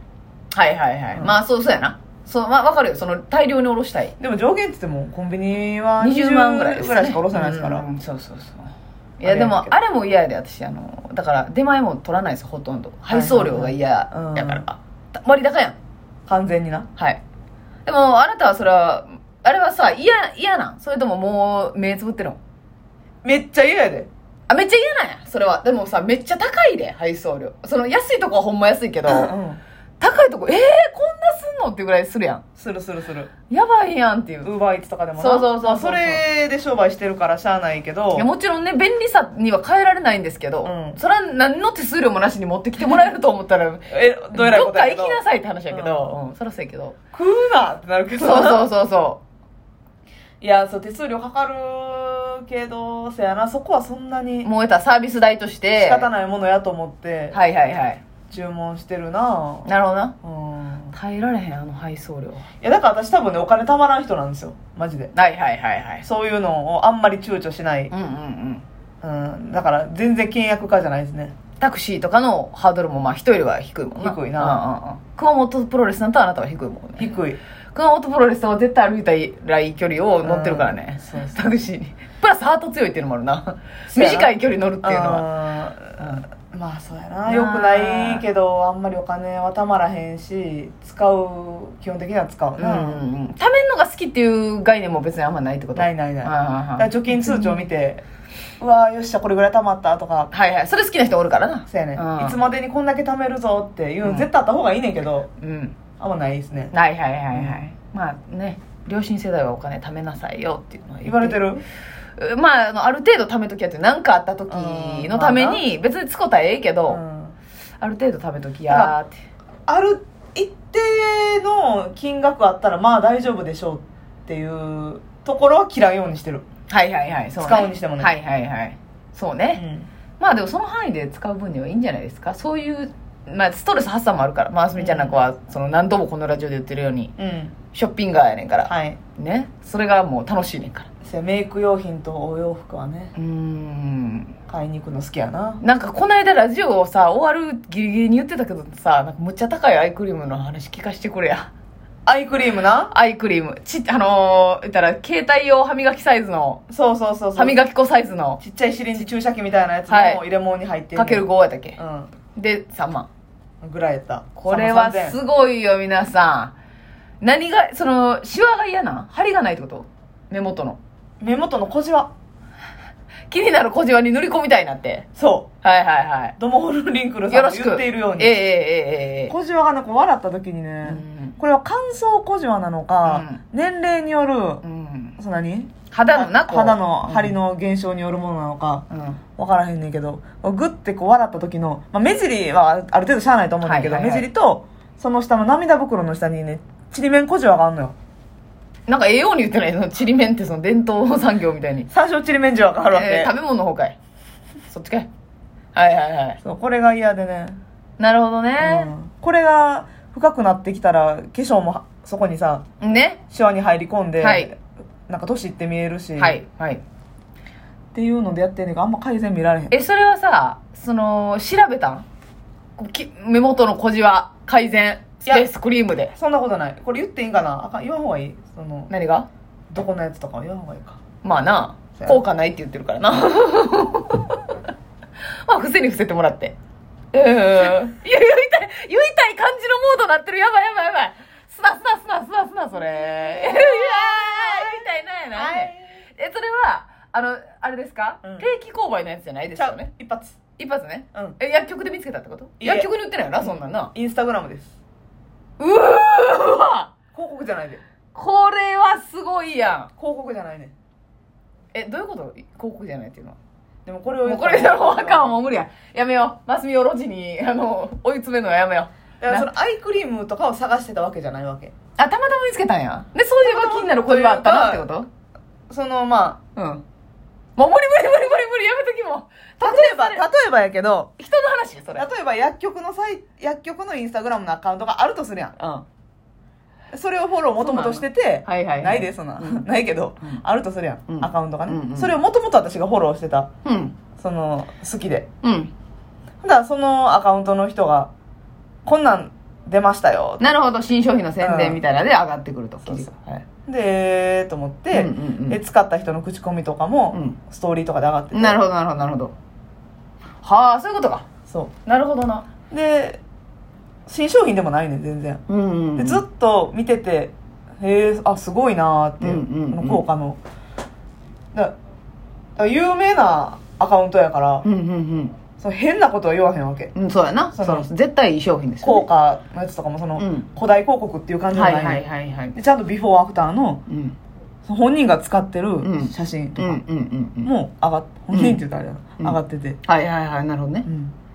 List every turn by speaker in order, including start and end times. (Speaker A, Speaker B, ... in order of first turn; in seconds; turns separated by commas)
Speaker A: 0.5-4.1, Speaker B: 4.2-7.8, Speaker A: 6.0-15.8, Speaker B: 9.2-9.8, Speaker B: 13.1-14.7, Speaker B: 16.3-16.9, Speaker A: 17.8-22.4, Speaker B: 23.2-24.1, Speaker A: 24.5-29.3, Speaker B: 29.1-29.6, Speaker A: 30.0-32.4, Speaker B: 32.6-33.3, Speaker A: 33.5-34.5, Speaker B: 34.4-38.3, Speaker A: 35.2-36.2, Speaker A: 38.1-47.0, Speaker B: 40.6-41.0, Speaker B: 43.9-46.1, Speaker B: 47.1-48.7, Speaker A: 48.2-49.2, Speaker B: 50.4-54.5, Speaker A: 54.4-56.1, Speaker B: 55.8-57.4, Speaker A: 57.3-58.0, Speaker B: 58.3-59.7, Speaker A: 59.6-60.1, Speaker B: 60.2-61.0, Speaker A: 60.9-62.5, Speaker B: 62.6-65.1, Speaker A: 65.1-66.0, Speaker B: 66.0-67.9, Speaker A: 67.9-68.6, Speaker B: 69.0-71.3, Speaker A: 71.6-77.1, Speaker B: 74.0-74.6, Speaker B: 77.0-77.4, Speaker A: 77.7-85.3, Speaker B: 80.2-81.3, Speaker B: 83.9-93.0, Speaker A: 86.0-86.2, Speaker A: 87.2-88.2, Speaker A: 92.6-97.7, Speaker B: 95.7-98.0, Speaker B: 98.6-100.3, Speaker A: 100.3-102.4, Speaker B: 101.7-105.3, Speaker A: 105.4-105.8, Speaker B: 106.0-106.7, Speaker A: 106.7-111.4, Speaker B: 107.3-107.6, Speaker B: 111.0-111.6, Speaker A: 112.2-117.0, Speaker B: 114.5-115.6, Speaker B: 116.9-117.4, Speaker A: 117.8-119.2, Speaker B: 118.7-118.9, Speaker B: 119.7-126.4, Speaker A: 126.7-129.6, Speaker B: 127.4-128.1, Speaker B: 129.6-129.9, Speaker A: 130.2-137.1, Speaker B: 134.8-135.2, Speaker B: 137.2-137.5, Speaker A: 137.7-140.9, Speaker B: 138.7-139.0, Speaker B: 141.0-143.1, Speaker A: 143.1-144.3, Speaker B: 144.5-145.6, Speaker A: 145.6-151.5, Speaker B: 152.1-152.9, Speaker A: 152.9-156.6, Speaker B: 156.7-157.6, Speaker A: 157.3-158.4, Speaker B: 158.4-161.2, Speaker A: 159.9-160.2, Speaker A: 160.9-161.8, Speaker B: 161.8-162.1, Speaker A: 162.3-163.1, Speaker B: 163.6-165.2, Speaker A: 164.3-166.5, Speaker A: 167.2-170.8, Speaker B: 171.2-172.1, Speaker A: 173.3-175.1, Speaker B: 175.2-175.5, Speaker A: 175.6-176.3, Speaker B: 176.4-178.3, Speaker A: 177.3-179.3, Speaker B: 179.3-184.6, Speaker A: 180.8-181.4, Speaker A: 183.0-183.4, Speaker A: 184.6-185.2, Speaker B: 185.2-188.8, Speaker A: 185.9-187.3, Speaker A: 188.9-189.2, Speaker B: 189.4-197.9, Speaker A: 193.6-194.3, Speaker A: 198.9-201.9, Speaker B: 201.9-203.3, Speaker A: 202.9-203.9, Speaker A: 204.7-205.1, Speaker A: 205.7-206.4, Speaker B: 206.4-207.6, Speaker A: 208.0-208.9, Speaker B: 208.6-212.6, Speaker A: 212.8-213.2, Speaker B: 213.3-216.4, Speaker A: 214.2-214.5, Speaker A: 216.2-216.8, Speaker B: 217.9-219.7, Speaker A: 219.7-222.1, Speaker A: 222.8-226.1, Speaker B: 226.1-228.9, Speaker A: 228.9-229.3, Speaker B: 229.7-231.0, Speaker A: 231.2-234.5, Speaker A: 235.4-236.6, Speaker A: 237.1-249.9, Speaker B: 243.4-245.9, Speaker B: 249.5-250.4, Speaker A: 250.6-253.9, Speaker B: 252.6-254.8, Speaker A: 255.6-256.9, Speaker B: 257.1-257.8, Speaker A: 258.1-259.9, Speaker B: 260.0-260.7, Speaker A: 261.7-263.4, Speaker B: 263.8-265.4, Speaker A: 264.2-269.5, Speaker B: 269.2-271.7, Speaker A: 272.0-275.1, Speaker B: 273.4-274.8, Speaker B: 275.7-276.4, Speaker A: 276.6-276.8, Speaker A: 277.6-280.3, Speaker B: 279.6-281.1, Speaker A: 281.2-282.1, Speaker B: 281.9-285.6, Speaker A: 285.6-285.8, Speaker B: 286.9-293.5, Speaker A: 287.6-289.7, Speaker A: 291.1-292.1, Speaker A: 293.6-293.9, Speaker B: 294.2-295.3, Speaker A: 295.4-295.7, Speaker B: 296.4-298.1, Speaker B: 298.9-300.4, Speaker A: 300.4-303.4, Speaker B: 301.4-301.8, Speaker B: 302.9-308.6, Speaker A: 304.9-305.6, Speaker A: 307.1-307.4, Speaker A: 308.3-309.3, Speaker A: 310.4-311.2, Speaker A: 311.8-312.5, Speaker B: 312.7-313.2, Speaker B: 314.1-315.4, Speaker A: 315.5-316.2, Speaker B: 316.0-320.4, Speaker A: 319.2-320.0, Speaker B: 322.6-324.6, Speaker A: 324.6-325.4, Speaker B: 325.6-326.9, Speaker A: 326.9-329.1, Speaker B: 327.5-327.9, Speaker B: 328.8-332.0, Speaker A: 330.1-330.5, Speaker A: 331.5-332.6, Speaker B: 332.5-333.8, Speaker A: 333.9-334.1, Speaker B: 334.6-336.8, Speaker A: 335.8-337.5, Speaker B: 337.4-339.8, Speaker A: 338.3-338.6, Speaker A: 339.2-340.9, Speaker B: 340.9-341.1